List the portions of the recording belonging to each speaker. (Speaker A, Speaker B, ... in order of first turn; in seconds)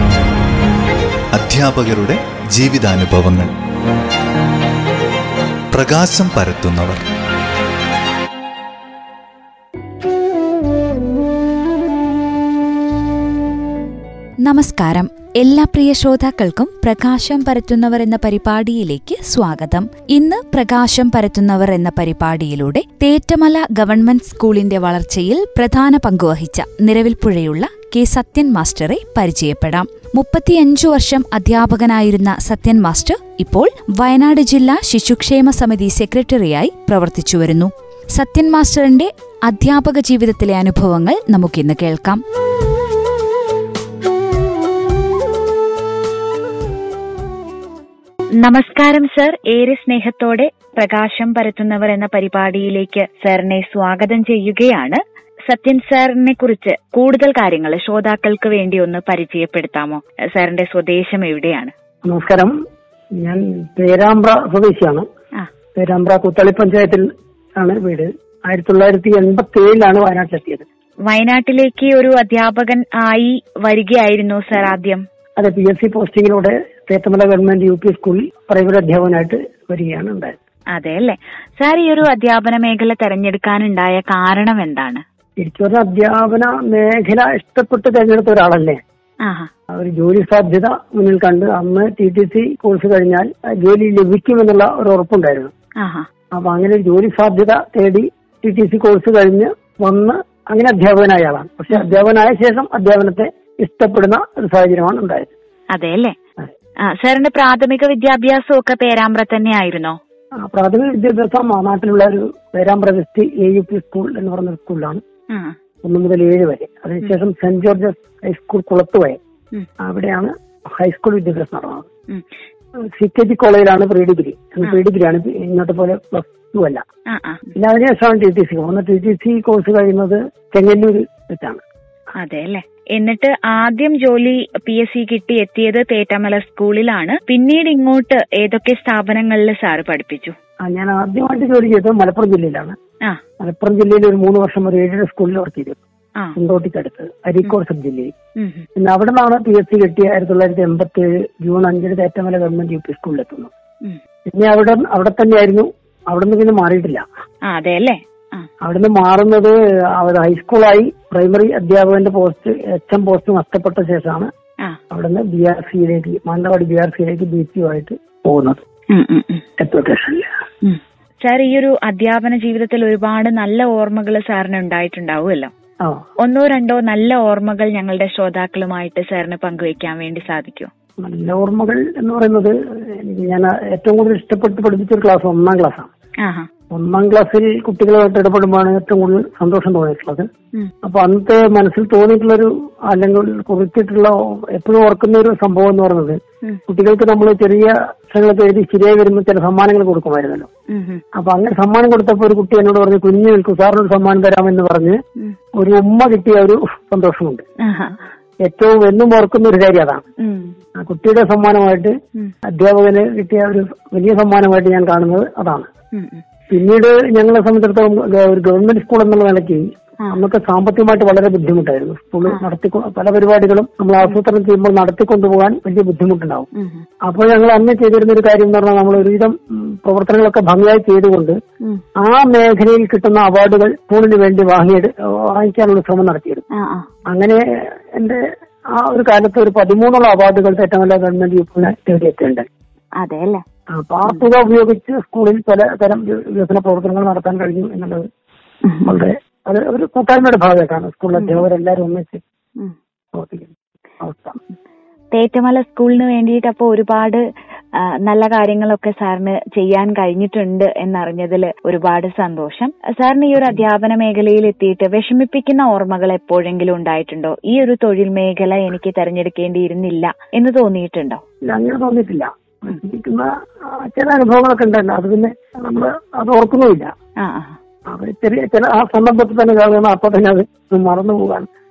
Speaker A: 1.3-3.5, 5.7-7.0
Speaker B: 14.4-42.2
Speaker C: 48.4-61.7, 71.1-75.0, 80.7-85.0, 89.2-89.5, 95.8-96.1, 101.7-102.0, 105.7-106.1, 106.8-110.0, 115.3-115.5, 127.1-127.5, 132.2-140.3, 148.4-148.7, 157.4-158.5, 168.9-169.4, 170.6-175.5, 176.2-180.7, 186.2-186.5, 200.7-201.0, 207.6-208.0, 210.2-210.5, 215.9-216.2, 226.5-226.8, 236.5-236.9, 243.0-243.4, 248.6-248.9, 251.2-251.4, 255.1-257.2, 258.0-271.2, 277.2-277.6
Speaker D: 62.0-62.5, 63.2-65.0, 65.8-70.7, 75.4-80.3, 85.4-88.8, 89.7-95.5, 96.3-105.3, 110.4-115.0, 115.8-119.2, 119.8-121.8, 122.8-126.8, 127.5-131.6, 140.6-142.8, 143.4-145.8, 146.3-148.1, 148.8-153.5, 154.3-157.0, 158.6-164.3, 164.9-168.6, 169.6-170.3, 181.0-185.9, 186.7-190.3, 190.8-200.5, 201.2-205.0, 205.6-207.4, 208.4-210.0, 210.8-211.9, 212.6-215.7, 216.5-226.5, 227.0-231.4, 232.0-236.4, 237.1-237.4, 237.9-238.2, 238.7-242.4, 243.7-248.1, 248.8-252.2, 253.1-254.4, 263.4-263.6, 271.5-276.9, 277.9-281.5